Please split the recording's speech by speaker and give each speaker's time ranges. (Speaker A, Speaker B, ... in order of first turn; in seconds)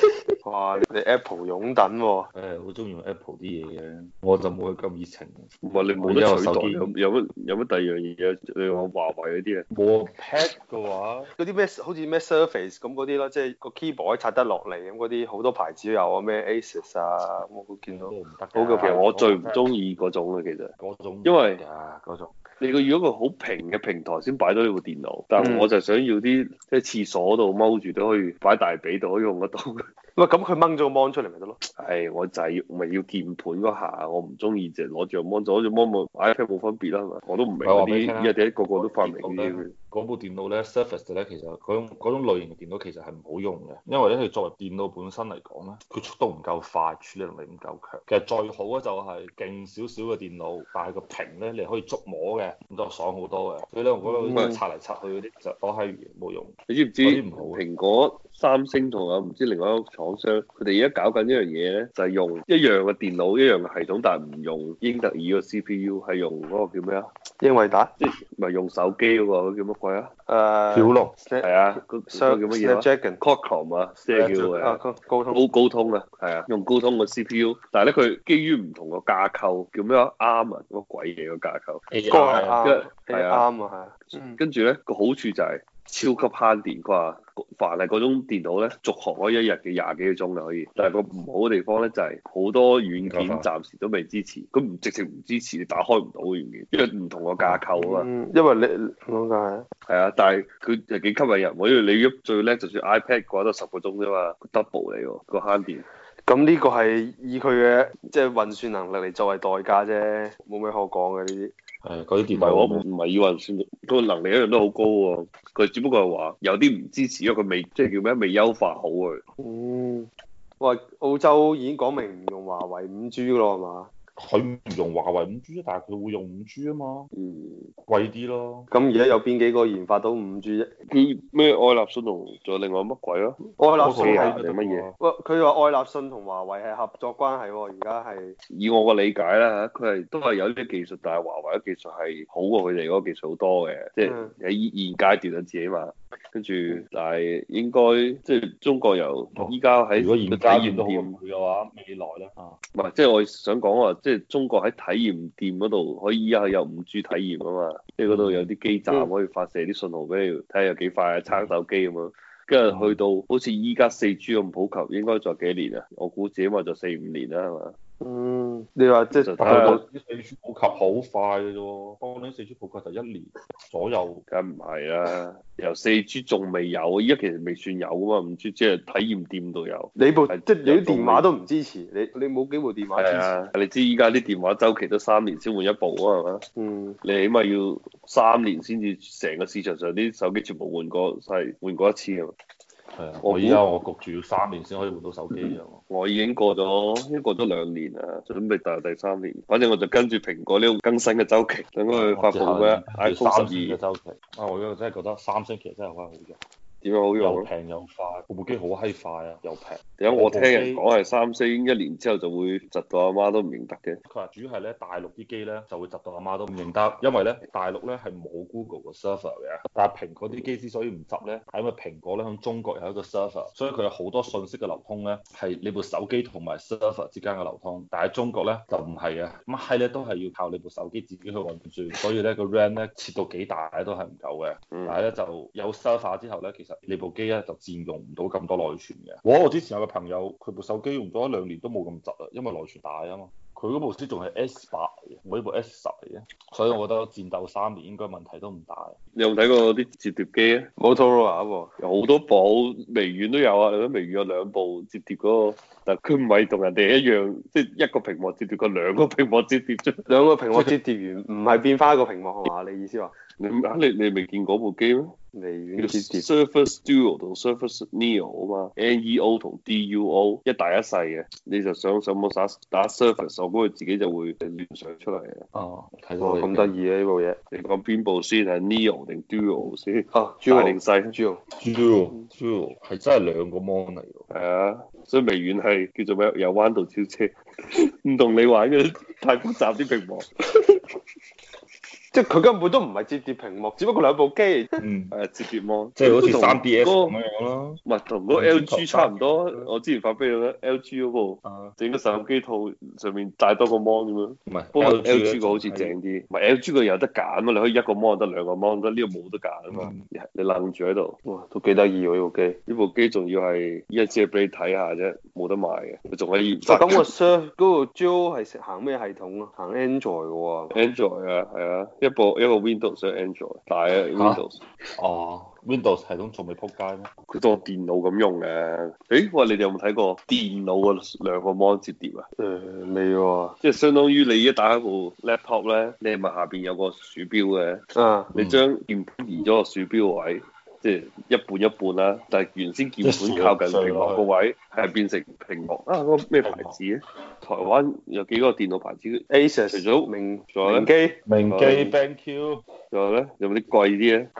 Speaker A: 0.4-2.3, 11.3-19.1, 25.4-25.7, 30.1-31.6, 54.0-54.6, 67.4-67.9, 70.3-73.2, 74.5-75.5, 82.1-84.4, 97.8-99.7, 106.2-111.5, 119.4-120.1, 120.6-123.9, 128.7-130.7, 133.6-134.4, 135.0-138.3, 144.0-144.3, 168.0-169.8, 179.9-183.3, 186.6-187.0, 250.8-251.7, 260.1-263.1, 265.3-266.3, 276.2-277.4, 280.1-281.4, 292.1-294.7, 311.2-312.6, 316.7-320.7, 332.4-333.6, 337.9-338.3, 349.3-351.2
Speaker B: 2.3-6.9, 9.7-11.3, 17.9-19.6, 20.8-22.3, 37.6-57.6, 70.7-71.1, 74.1-74.8, 81.9-82.7, 93.0-93.5, 111.8-112.8, 124.2-127.1, 127.9-128.7, 133.7-134.9, 149.3-152.6, 158.1-158.5, 161.3-161.5, 162.7-163.0, 169.4-174.2, 192.9-195.8, 201.9-206.4, 207.2-210.8, 214.0-248.9, 275.5-276.7, 281.5-284.2, 294.8-295.1, 296.0-297.8, 298.3-299.7, 301.4-301.7, 304.4-305.9, 309.7-310.1, 324.1-324.4, 325.0-327.1, 338.3-338.6, 343.0-344.2, 346.4-346.8, 351.2-352.6
Speaker C: 5.6-9.6, 18.8-20.7, 21.2-21.6, 22.6-29.8, 31.8-39.7, 56.7-67.1, 68.0-70.1, 71.4-74.8, 75.3-81.8, 82.6-83.5, 84.3-98.1, 99.9-105.8, 112.3-119.2, 127.1-127.7, 130.9-134.9, 138.5-151.2, 152.7-167.7, 169.1-169.8, 174.3-181.3, 182.9-186.4, 187.0-192.3, 193.2-193.6, 195.9-203.8, 206.8-207.5, 210.0-214.0, 234.7-235.0, 249.1-250.7, 251.8-260.0, 263.4-265.1, 265.8-275.4, 277.5-281.1, 284.3-290.3, 295.1-297.1, 297.9-311.1, 312.7-317.1, 320.7-324.6, 327.3-332.2, 333.6-350.9, 351.5-351.9, 352.9-354.3